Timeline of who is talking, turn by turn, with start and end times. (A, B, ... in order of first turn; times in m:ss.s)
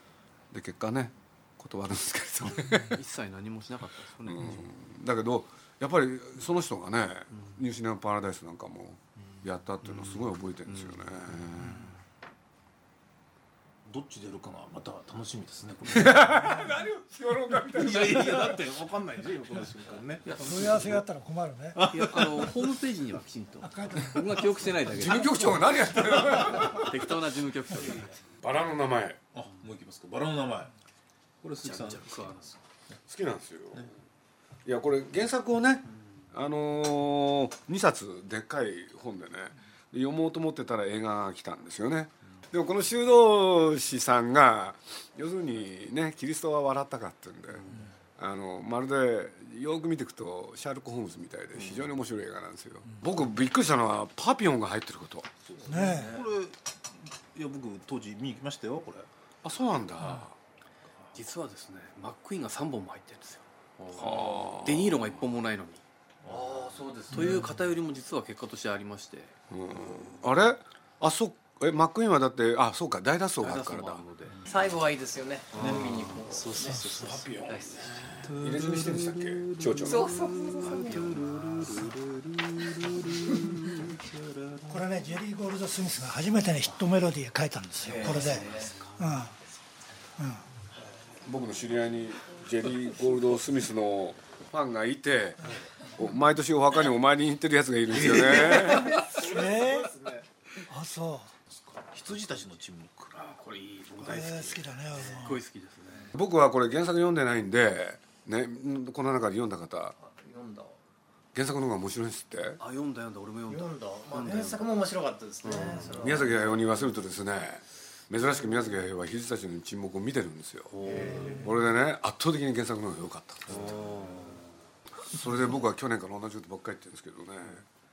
0:00.5-0:03.0 A
0:02.6-0:04.7 B
0:04.2-0:11.9 A
0:09.8-0:11.0 B
0:13.8-0:16.7 C
0:15.9-0:18.6 A
0:17.7-0:21.0 C
0:20.4-0:21.8 D
0:21.7-0:22.7 C
0:21.9-0:28.1 B
0:23.6-0:24.5 D
0:24.8-0:27.0 A
0:28.4-0:29.2 A
0:29.3-0:30.7 C
0:31.4-0:32.6 C
0:31.6-0:32.5 B
0:33.1-0:33.9 A
0:34.6-0:55.3 A
0:51.6-0:51.9 C
0:55.4-0:59.1 C
0:55.6-0:56.2 E
0:55.7-0:56.2 D
0:59.4-1:00.4 A
1:01.1-1:05.8 B
1:03.9-1:05.1 A
1:06.2-1:07.5 E
1:06.2-1:07.4 C
1:07.1-1:09.3 B
1:09.5-1:14.0 A
1:13.4-1:14.4 B
1:14.4-1:18.3 E
1:15.5-1:16.2 B
1:15.5-1:17.4 C
1:17.0-1:21.0 A
1:18.2-1:24.8 C
1:19.9-1:21.1 E
1:24.7-1:29.3 D
1:27.8-1:28.8 E
1:28.1-1:28.9 C
1:30.2-1:30.4 D
1:31.2-1:39.0 A
1:37.9-1:40.2 C
1:39.2-1:39.9 D
1:40.7-1:41.3 D
1:41.8-1:43.4 C
1:43.3-1:46.1 B
1:44.0-1:45.4 D
1:46.1-1:49.9 A
1:50.0-1:50.8 E
1:51.3-1:52.6 A
1:52.6-1:54.7 B
1:53.5-1:56.7 E
1:55.4-1:56.3 B
1:56.0-2:03.8 A
2:00.7-2:01.5 B
2:00.8-2:01.5 E
2:00.9-2:01.4 C
2:03.5-2:04.5 B
2:05.0-2:07.6 A